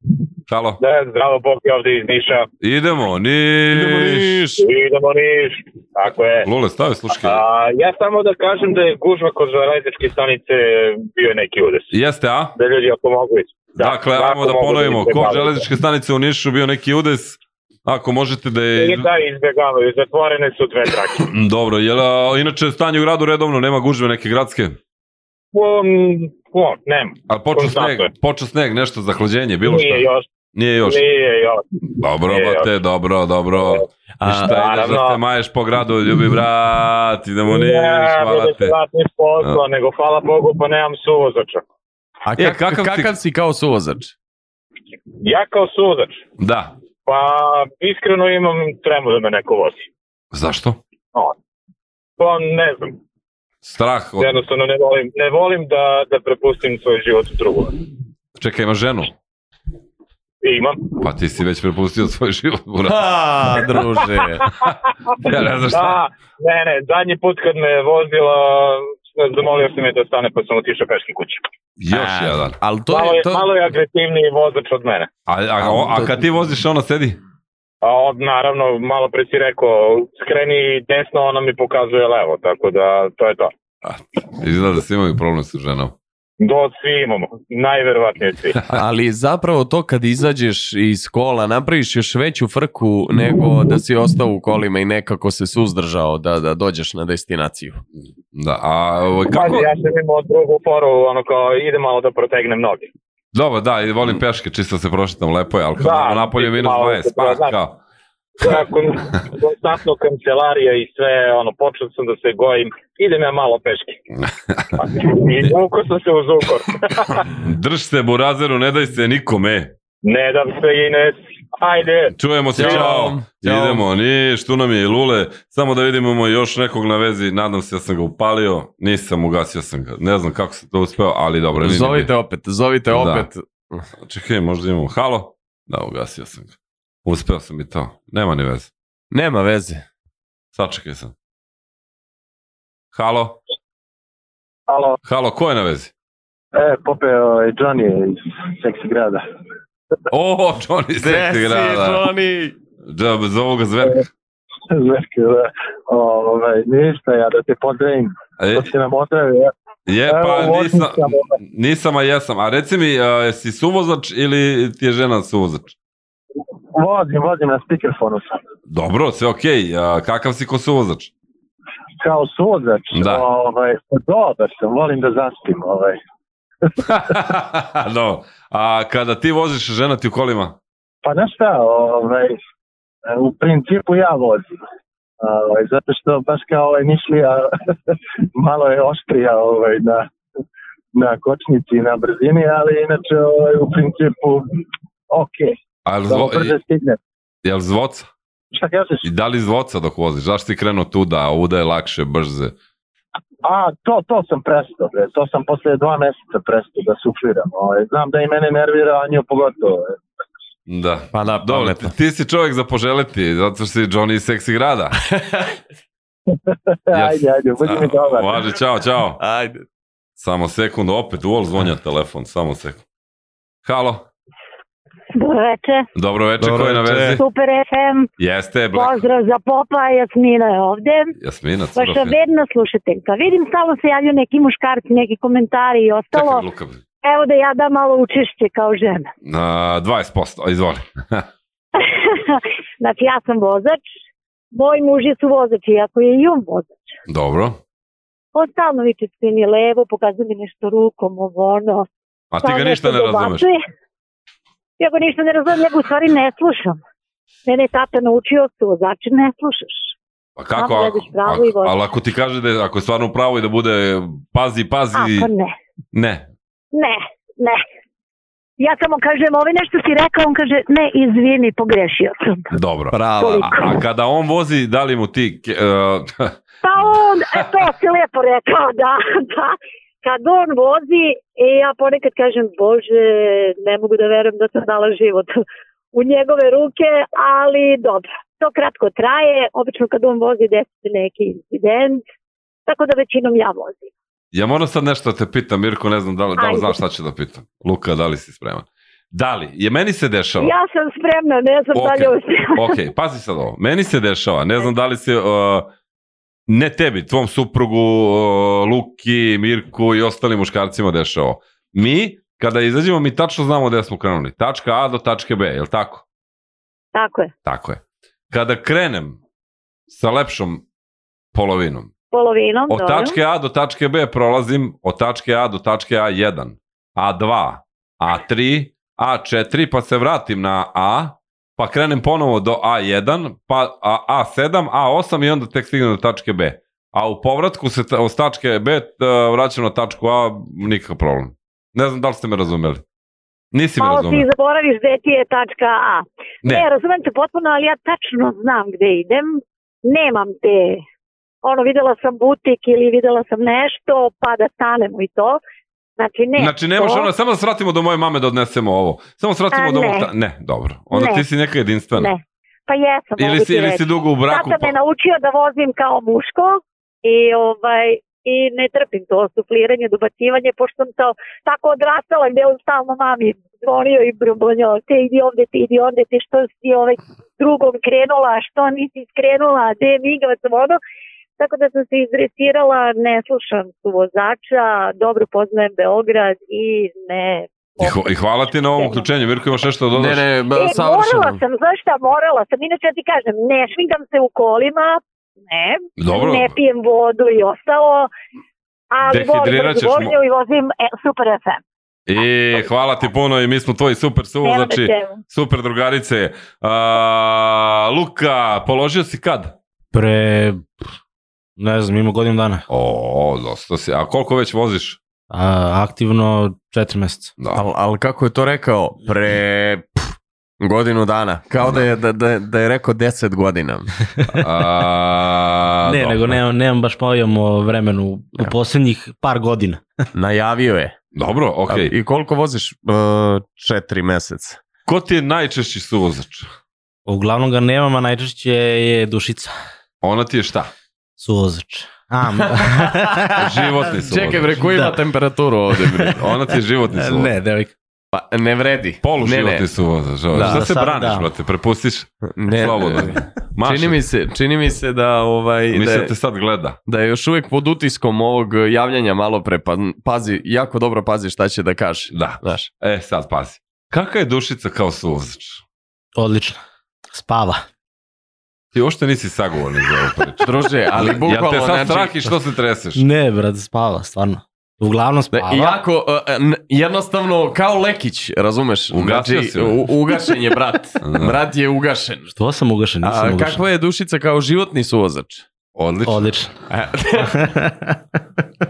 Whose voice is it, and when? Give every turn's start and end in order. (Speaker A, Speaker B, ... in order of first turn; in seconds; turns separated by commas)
Speaker A: 0.5-0.8, Speaker B: 0.8-2.5, Speaker A: 2.6-4.4, Speaker C: 3.7-4.7, Speaker B: 4.6-6.5, Speaker A: 6.4-7.4, Speaker B: 7.1-11.9, Speaker A: 11.9-12.6, Speaker B: 12.6-15.6, Speaker A: 13.8-19.0, Speaker B: 18.8-21.3, Speaker A: 21.2-24.8, Speaker B: 25.5-28.1, Speaker A: 27.3-31.0, Speaker B: 29.6-30.2, Speaker B: 30.8-31.6, Speaker A: 32.0-38.7, Speaker B: 32.2-32.7, Speaker B: 33.5-33.8, Speaker C: 34.2-34.6, Speaker B: 34.4-35.2, Speaker B: 37.5-41.6, Speaker C: 42.3-44.1, Speaker A: 42.4-43.1, Speaker B: 45.2-46.2, Speaker A: 46.4-46.7, Speaker B: 47.0-49.9, Speaker A: 50.3-50.8, Speaker B: 52.2-53.0, Speaker A: 53.6-54.3, Speaker B: 54.2-57.8, Speaker A: 58.4-59.1, Speaker B: 60.4-61.0, Speaker A: 61.0-63.1, Speaker C: 62.9-64.5, Speaker A: 65.2-66.0, Speaker B: 65.7-71.4, Speaker A: 71.8-72.6, Speaker C: 71.9-73.5, Speaker B: 72.9-75.1, Speaker A: 75.3-77.2, Speaker C: 75.7-76.1, Speaker B: 77.8-83.5, Speaker A: 83.8-85.9, Speaker B: 86.4-88.6, Speaker C: 88.7-97.8, Speaker A: 98.3-99.7, Speaker B: 99.3-102.9, Speaker A: 103.3-107.8, Speaker B: 105.8-107.5, Speaker B: 108.4-114.0, Speaker B: 114.8-117.3, Speaker A: 117.3-119.7, Speaker B: 120.0-122.9, Speaker A: 122.1-132.1, Speaker C: 122.5-123.8, Speaker C: 131.6-133.8, Speaker A: 132.9-133.3, Speaker A: 134.0-138.7, Speaker C: 139.1-139.8, Speaker A: 140.5-141.1, Speaker A: 142.9-143.4, Speaker D: 144.7-145.0, Speaker A: 145.0-145.9, Speaker D: 146.5-149.2, Speaker A: 150.1-152.1, Speaker C: 151.0-152.5, Speaker A: 152.8-154.1, Speaker D: 154.7-159.5, Speaker A: 158.4-158.7, Speaker A: 159.9-165.7, Speaker D: 160.1-161.3, Speaker D: 166.7-168.4, Speaker A: 168.7-171.1, Speaker D: 172.0-175.9, Speaker A: 172.9-173.2, Speaker A: 176.8-180.6, Speaker D: 181.0-182.3, Speaker D: 183.1-184.5, Speaker D: 185.2-187.5, Speaker D: 188.4-190.1, Speaker D: 190.9-194.4, Speaker D: 195.1-195.5, Speaker A: 195.8-196.6, Speaker D: 196.1-197.0, Speaker A: 197.4-198.1, Speaker D: 198.5-199.1, Speaker A: 199.0-202.5, Speaker D: 203.4-210.0, Speaker A: 210.7-215.0, Speaker C: 211.1-211.9, Speaker C: 215.1-215.5, Speaker D: 216.5-218.5, Speaker A: 216.9-219.2, Speaker C: 219.2-219.6, Speaker A: 220.2-222.8, Speaker A: 223.6-224.1, Speaker E: 225.1-225.9, Speaker A: 225.9-227.2, Speaker C: 226.4-227.2, Speaker E: 227.1-228.1, Speaker A: 228.2-229.0, Speaker E: 228.7-231.1, Speaker A: 231.2-232.2, Speaker E: 231.7-236.5, Speaker A: 236.1-236.8, Speaker E: 237.0-239.1, Speaker A: 239.2-241.2, Speaker E: 241.8-243.8, Speaker E: 244.5-246.9, Speaker A: 247.1-247.6, Speaker E: 248.3-251.9, Speaker A: 252.3-253.4, Speaker E: 252.4-253.6, Speaker E: 254.8-256.8, Speaker E: 257.4-259.9, Speaker A: 260.4-265.3, Speaker E: 260.6-261.8, Speaker E: 264.9-265.5, Speaker A: 265.9-266.2, Speaker E: 266.7-267.6, Speaker E: 268.6-272.5, Speaker A: 272.5-277.4, Speaker C: 272.9-273.6, Speaker E: 273.2-273.8, Speaker E: 276.6-292.0, Speaker E: 292.7-293.9, Speaker A: 294.3-300.5, Speaker E: 296.4-296.8, Speaker E: 300.4-302.8, Speaker A: 301.7-305.7, Speaker A: 306.5-316.0, Speaker E: 316.9-317.3, Speaker A: 317.4-319.2, Speaker A: 319.9-320.6, Speaker A: 321.3-321.9, Speaker E: 322.1-323.2, Speaker A: 322.7-342.8, Speaker A: 343.5-344.2, Speaker E: 343.8-350.8, Speaker E: 351.4-355.4, Speaker E: 356.0-357.1, Speaker A: 356.4-362.1, Speaker E: 359.5-360.1, Speaker E: 360.9-361.2, Speaker E: 361.9-380.8, Speaker A: 363.2-364.7, Speaker E: 381.4-388.1, Speaker A: 387.8-390.2, Speaker E: 388.6-389.0, Speaker C: 389.9-391.4, Speaker E: 390.5-398.1, Speaker A: 396.0-396.5, Speaker E: 398.9-401.6, Speaker A: 399.1-400.1, Speaker A: 402.1-409.6, Speaker E: 404.4-405.2, Speaker F: 409.9-410.7, Speaker F: 411.6-412.6, Speaker A: 412.7-415.0, Speaker F: 415.3-417.3, Speaker A: 417.4-417.6, Speaker C: 417.5-423.9, Speaker A: 421.6-421.8, Speaker A: 424.4-426.4, Speaker F: 425.9-429.8, Speaker C: 430.1-430.9, Speaker A: 431.1-431.9, Speaker C: 431.7-434.6, Speaker A: 434.9-436.5, Speaker F: 437.1-439.5, Speaker A: 440.0-440.7, Speaker F: 441.2-443.6, Speaker A: 443.4-444.6, Speaker C: 443.9-446.2, Speaker F: 444.6-445.0, Speaker F: 445.7-446.1, Speaker A: 446.2-447.3, Speaker F: 446.9-447.7, Speaker C: 448.1-449.6, Speaker A: 449.0-454.0, Speaker C: 450.3-450.6, Speaker F: 450.4-451.3, Speaker C: 452.3-456.1, Speaker A: 455.7-456.8, Speaker C: 456.9-462.7, Speaker A: 462.1-465.6, Speaker F: 466.2-466.6, Speaker F: 467.1-467.6, Speaker A: 468.7-473.0, Speaker C: 470.4-472.2, Speaker F: 472.9-475.8, Speaker C: 475.3-482.3, Speaker A: 478.9-479.9, Speaker A: 481.0-481.4, Speaker F: 482.3-483.6, Speaker C: 483.0-485.4, Speaker A: 485.7-486.3, Speaker F: 486.1-486.5, Speaker C: 486.7-487.4, Speaker F: 487.4-487.9